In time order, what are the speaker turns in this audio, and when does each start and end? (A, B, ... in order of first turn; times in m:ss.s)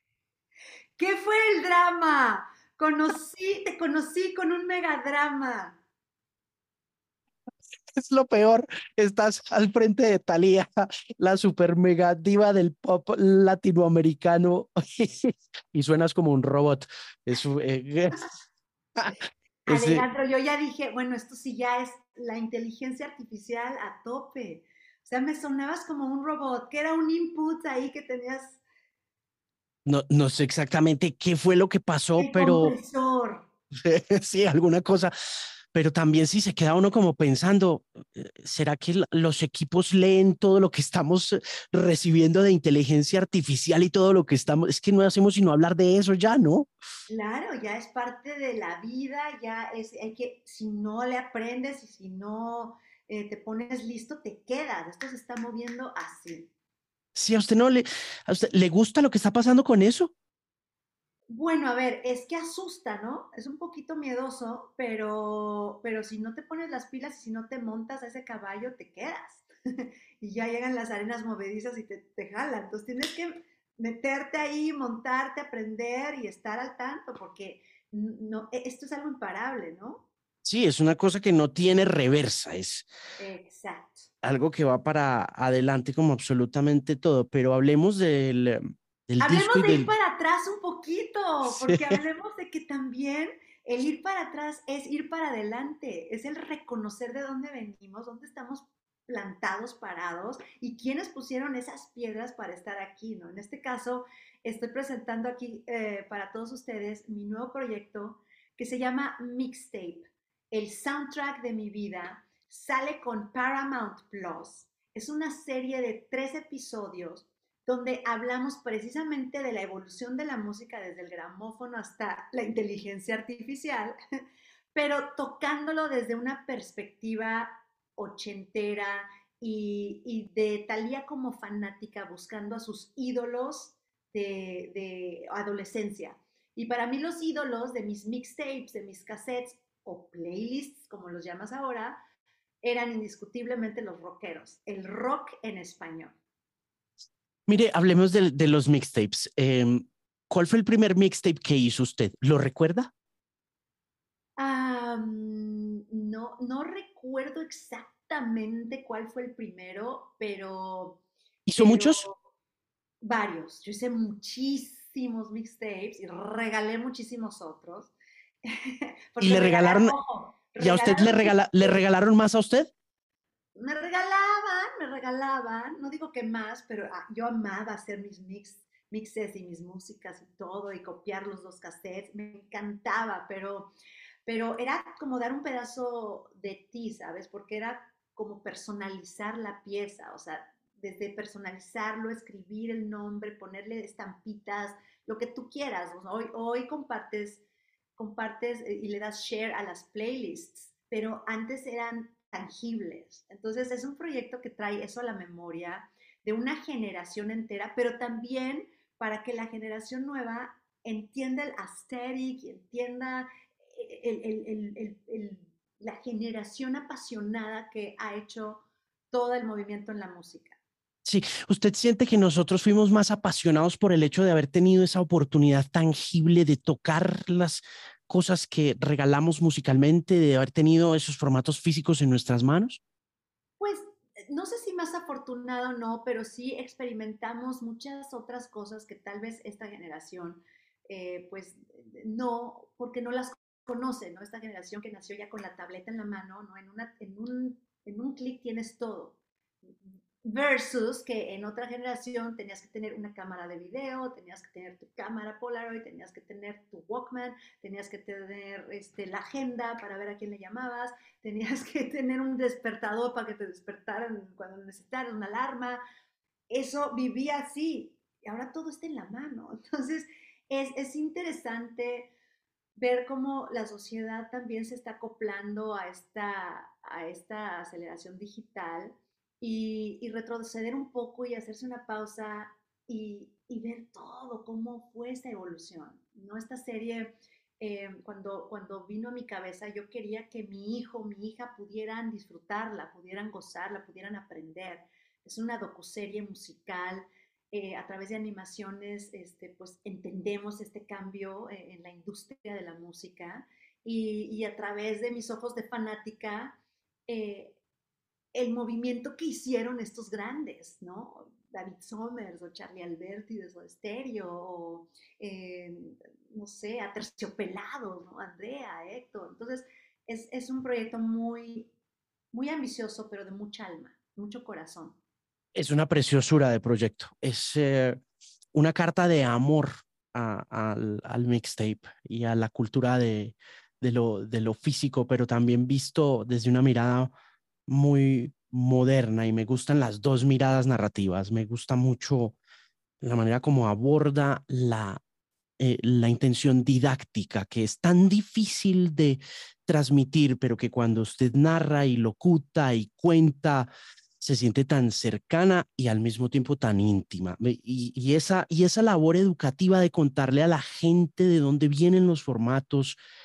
0:01.0-0:05.8 A
0:08.0-0:18.3 B
0:19.0-0:20.0 B
0:19.7-0:28.6 A
0:29.9-0:32.7 B
0:32.2-0:33.4 A
0:33.8-0:35.1 B
0:35.7-0:46.7 B
0:47.1-0:56.5 A
0:57.2-1:00.1 B
1:01.3-1:20.0 A
1:20.4-1:22.9 B
1:23.2-1:24.1 A
1:24.2-1:29.9 B
1:29.2-2:04.0 A
1:31.6-1:32.0 B
2:04.8-2:22.0 A
2:22.6-2:26.2 A
2:27.5-2:32.9 B
2:34.4-2:41.0 A
2:41.5-2:42.0 B
2:41.6-2:42.2 A
2:43.0-2:47.9 A
2:48.4-2:51.8 A
2:49.2-2:50.0 B
2:50.6-2:52.7 B
2:53.6-3:03.7 A
3:04.3-3:17.4 A
3:18.0-3:40.6 A
3:41.1-3:52.8 B
3:53.6-4:09.2 A
4:09.8-4:25.8 A
4:26.5-4:32.1 A
4:32.8-5:06.6 A
5:07.1-5:07.6 A
5:08.3-5:21.7 A
5:22.3-5:25.0 A
5:25.6-5:28.0 B
5:28.5-5:37.1 B
5:37.7-5:42.4 B
5:43.0-5:45.0 B
5:45.6-6:03.0 B